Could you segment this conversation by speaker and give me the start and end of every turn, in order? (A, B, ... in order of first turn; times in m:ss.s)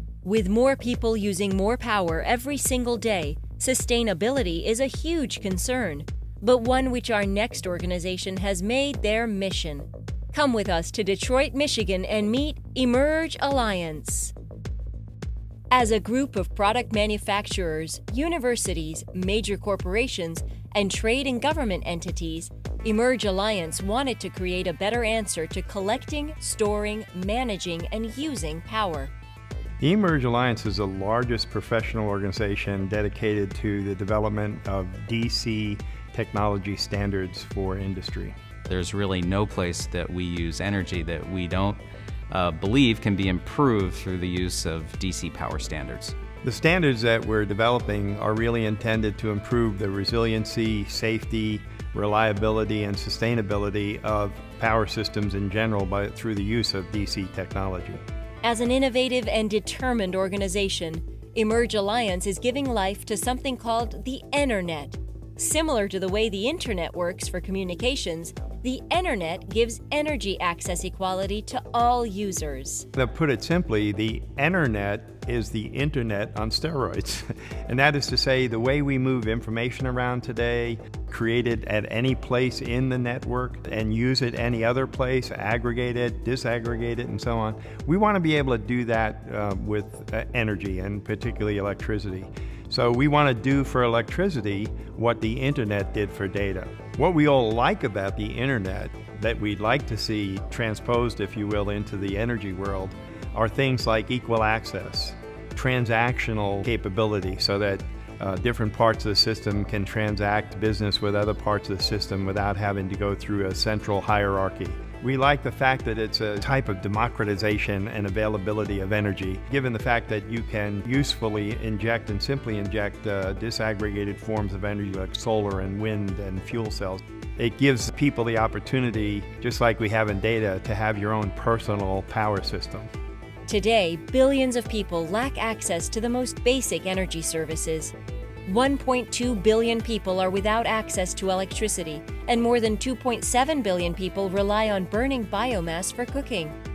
0:00.2-0:14.3 A
0:15.7-0:29.1 A
0:29.8-0:38.4 B
0:38.7-0:46.2 C
0:46.4-0:58.0 B
0:58.4-1:12.9 A
1:13.0-2:12.9 B
2:13.5-2:17.9 A
2:18.5-2:26.6 A